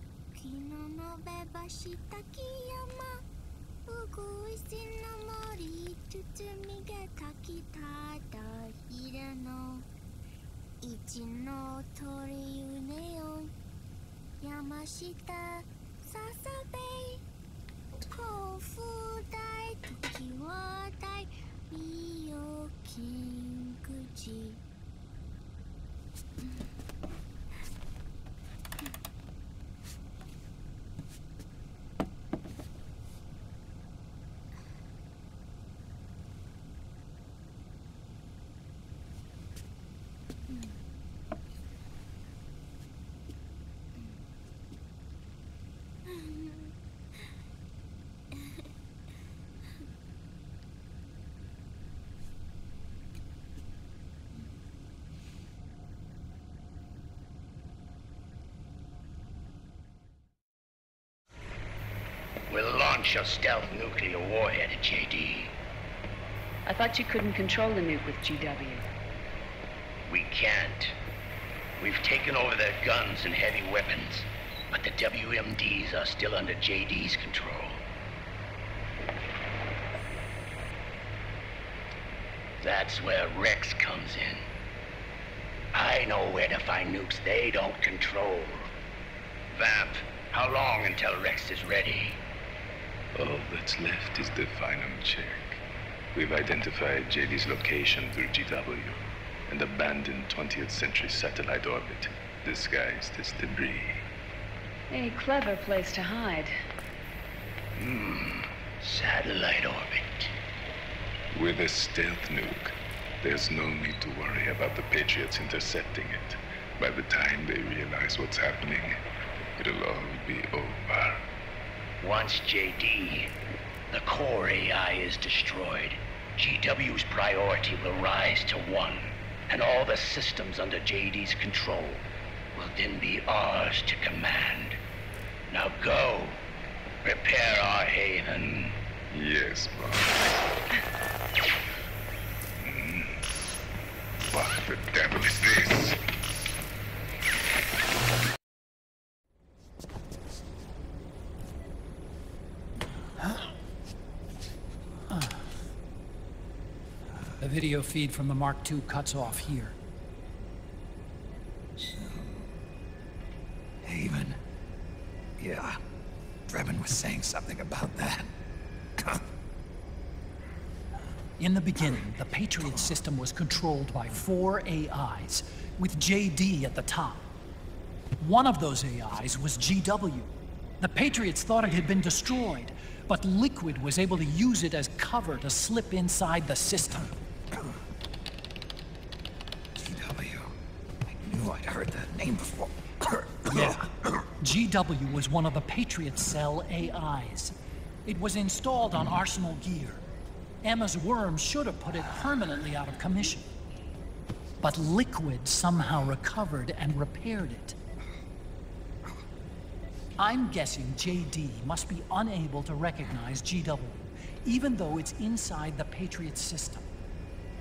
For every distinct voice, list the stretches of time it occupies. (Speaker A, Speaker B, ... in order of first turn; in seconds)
Speaker A: 0.3-3.2, 3.9-9.9, 10.8-13.5, 14.4-17.2, 18.0-24.6, 40.5-40.8, 46.1-46.7
Speaker B: 62.5-65.5, 70.0-70.9, 71.8-77.8, 82.6-84.4, 85.7-88.7, 89.5-92.2, 107.8-110.3, 122.0-123.3, 123.9-134.8, 135.5-136.4, 137.0-138.8
Speaker C: 66.7-68.9, 104.9-106.6
Speaker D: 93.1-95.6, 96.1-104.0, 111.3-119.0, 119.6-121.2, 139.1-140.4, 142.6-143.1, 144.3-146.0
Speaker E: 155.1-155.4, 157.4-159.8, 171.4-177.3, 178.2-187.1, 193.5-193.9, 194.4-200.0, 200.6-203.5, 204.6-207.8, 210.2-216.8
Speaker F: 161.9-162.4, 163.8-164.4, 165.4-165.8, 166.5-168.3, 189.8-193.8